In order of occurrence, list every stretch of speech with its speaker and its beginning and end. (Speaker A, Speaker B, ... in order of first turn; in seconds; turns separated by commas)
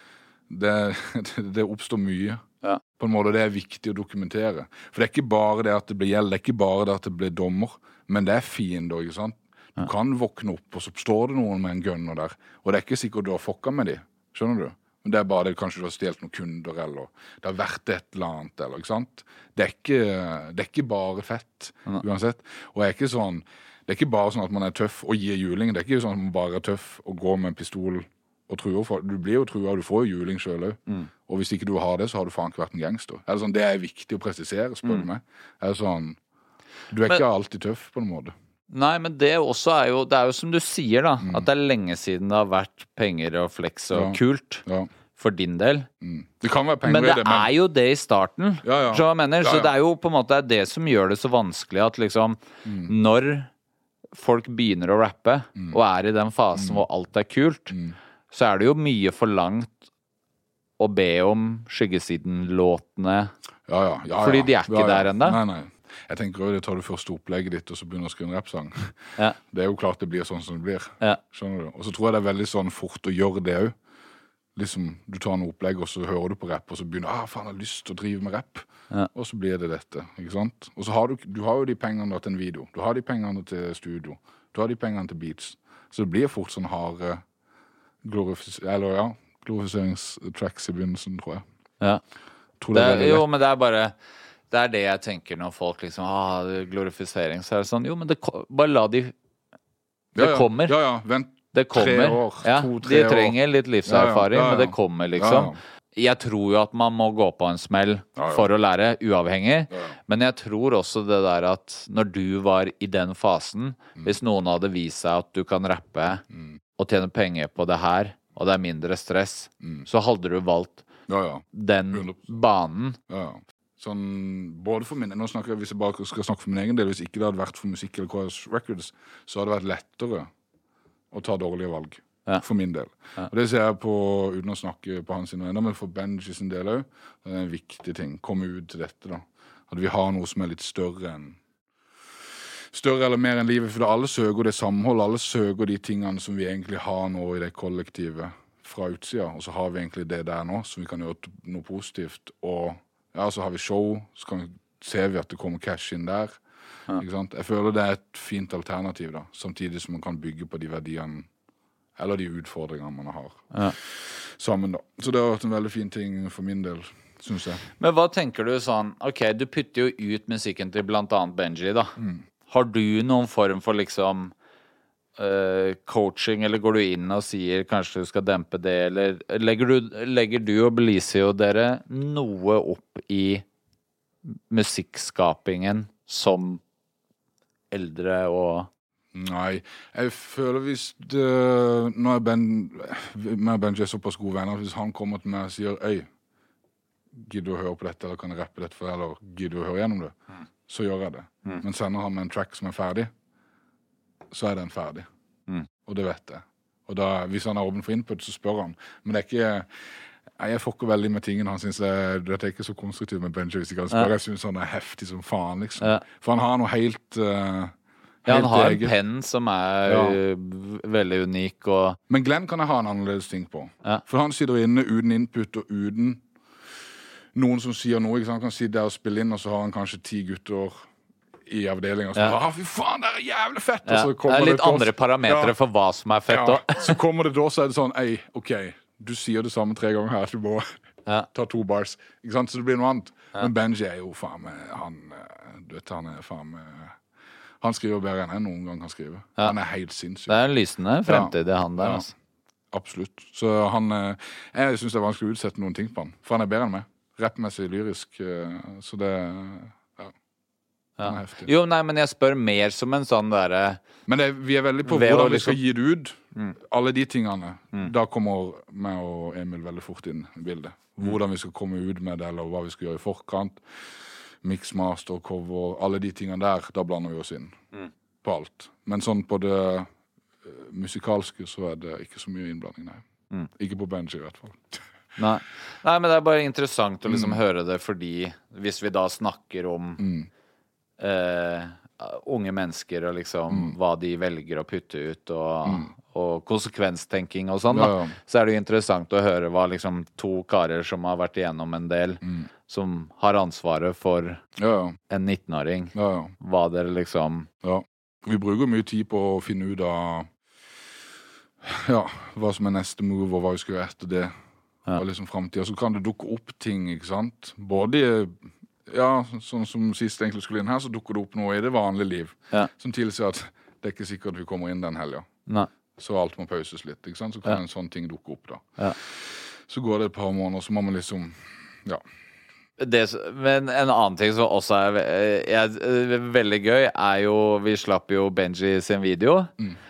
Speaker A: 0.5-2.4, Speaker A: 3.0-36.2, Speaker A: 36.9-38.3, Speaker B: 38.7-44.6, Speaker A: 41.2-41.5, Speaker A: 43.9-44.9, Speaker B: 45.1-45.9, Speaker A: 46.0-47.5, Speaker B: 46.8-53.5, Speaker A: 48.6-49.7, Speaker A: 52.6-52.9, Speaker B: 54.1-57.7, Speaker A: 56.5-56.8, Speaker A: 57.7-58.0, Speaker B: 58.3-59.8, Speaker B: 60.8-63.3, Speaker A: 63.7-73.8, Speaker B: 64.2-65.4, Speaker A: 74.5-87.2, Speaker A: 88.0-91.4, Speaker A: 92.6-93.2, Speaker B: 92.7-93.9, Speaker B: 94.5-99.1, Speaker A: 100.1-105.6, Speaker B: 100.2-100.8, Speaker B: 101.5-116.2, Speaker A: 108.2-108.5, Speaker A: 116.3-116.6, Speaker B: 116.8-120.8, Speaker A: 121.1-122.3, Speaker B: 121.5-123.0, Speaker A: 123.1-130.3, Speaker A: 131.1-141.4, Speaker A: 142.7-156.4, Speaker A: 156.9-161.3, Speaker A: 161.9-167.6, Speaker B: 167.8-171.9, Speaker A: 172.0-172.2, Speaker B: 172.5-174.3, Speaker B: 175.2-183.4, Speaker B: 184.5-186.6, Speaker B: 187.7-188.7, Speaker A: 189.1-196.1, Speaker A: 197.1-200.1, Speaker A: 200.7-203.1, Speaker A: 204.3-205.1, Speaker A: 205.8-209.7, Speaker A: 210.4-218.9, Speaker B: 218.3-222.0, Speaker A: 219.8-220.2, Speaker A: 222.1-226.2, Speaker A: 227.3-230.9, Speaker A: 231.4-235.6, Speaker B: 233.8-237.0, Speaker A: 236.3-240.7, Speaker A: 241.3-247.0, Speaker A: 247.6-250.4, Speaker B: 250.3-252.1, Speaker A: 251.1-252.1, Speaker A: 252.7-260.1, Speaker B: 261.0-263.8, Speaker A: 261.0-261.5, Speaker A: 264.1-273.6, Speaker B: 264.9-265.6, Speaker A: 274.4-277.6, Speaker A: 278.2-279.9, Speaker A: 280.4-283.0, Speaker A: 283.6-284.8, Speaker B: 285.2-290.0, Speaker A: 287.1-287.4, Speaker A: 290.0-290.3, Speaker B: 291.0-304.4, Speaker A: 293.5-293.7, Speaker A: 295.6-295.9, Speaker A: 297.7-298.1, Speaker A: 302.2-302.5, Speaker A: 304.6-305.0, Speaker B: 305.1-307.5, Speaker A: 305.9-306.3, Speaker A: 307.6-310.3, Speaker A: 311.6-314.3, Speaker A: 314.9-325.3, Speaker A: 325.9-332.0, Speaker B: 332.8-339.5